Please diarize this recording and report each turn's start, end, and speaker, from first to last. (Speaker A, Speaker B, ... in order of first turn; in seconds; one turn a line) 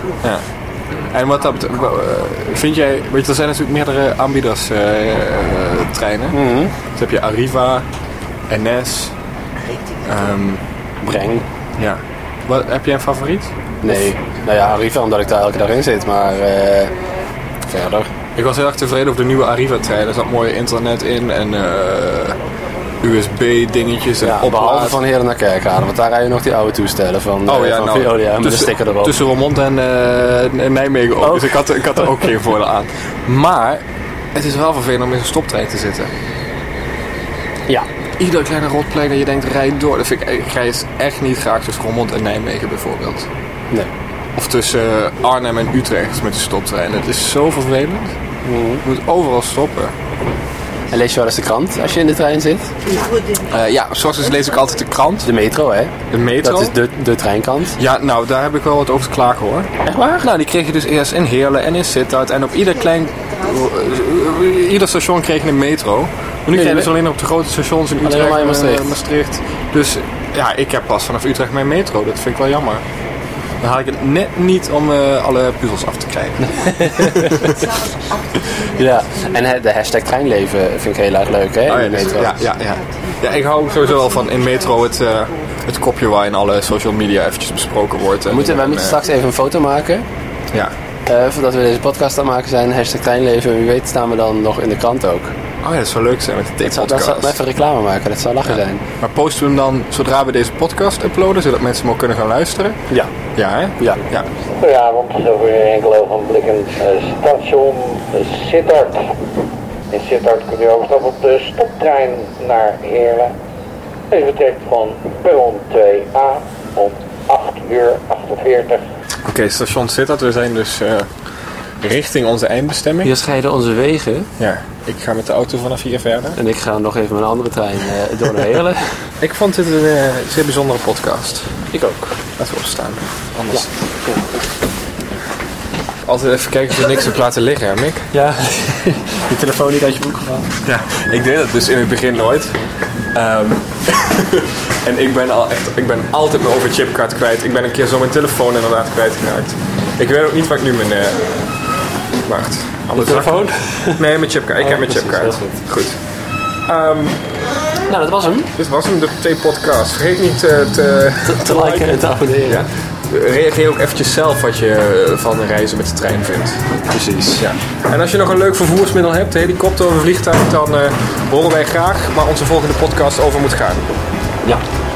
Speaker A: 1.1-6.4
Speaker B: 6.3-6.7
Speaker A: 6.9-7.8
Speaker A: 8.5-9.1
Speaker A: 10.0-10.6
Speaker B: 11.0-11.4
Speaker A: 11.8-14.1
Speaker B: 13.8-16.9
Speaker B: 17.6-18.1
Speaker A: 18.4-22.4
Speaker A: 23.0-25.0
Speaker B: 24.2-29.1
Speaker A: 27.5-33.8
Speaker B: 31.2-32.1
Speaker A: 34.4-36.1
Speaker A: 38.2-43.3
Speaker A: 44.4-48.1
Speaker B: 48.5-48.8
Speaker A: 48.8-49.9
Speaker B: 50.9-53.0
Speaker A: 53.5-55.3
Speaker B: 55.2-57.8
Speaker A: 56.1-56.8
Speaker A: 57.8-59.7
Speaker B: 59.9-60.3
Speaker A: 60.2-72.8
Speaker B: 66.5-66.9
Speaker B: 68.0-69.0
Speaker A: 73.6-77.5
Speaker B: 76.5-77.6
Speaker B: 78.8-82.4
Speaker A: 81.7-89.0
Speaker B: 88.3-90.0
Speaker B: 91.1-95.3
Speaker A: 95.6-97.4
Speaker B: 96.6-98.8
Speaker A: 98.5-102.8
Speaker A: 103.4-104.3
Speaker C: 104.7-109.0
Speaker C: 109.9-113.3
Speaker C: 114.1-118.8
Speaker A: 119.2-121.1
Speaker A: 121.8-123.1
Speaker B: 123.0-124.3
Speaker A: 124.4-126.4
Speaker B: 126.4-128.8
Speaker A: 129.2-131.5
Speaker B: 131.7-132.1
Speaker A: 132.4-133.7
Speaker B: 133.5-134.3
Speaker A: 136.1-138.1
Speaker B: 138.1-140.5
Speaker A: 140.6-142.6
Speaker A: 143.1-151.2
Speaker A: 152.2-156.0
Speaker B: 152.9-154.0
Speaker B: 154.6-155.6
Speaker A: 156.7-157.2
Speaker B: 157.9-158.5
Speaker A: 158.6-161.9
Speaker B: 161.2-162.7
Speaker A: 162.5-166.6
Speaker B: 166.9-167.4
Speaker A: 167.4-173.9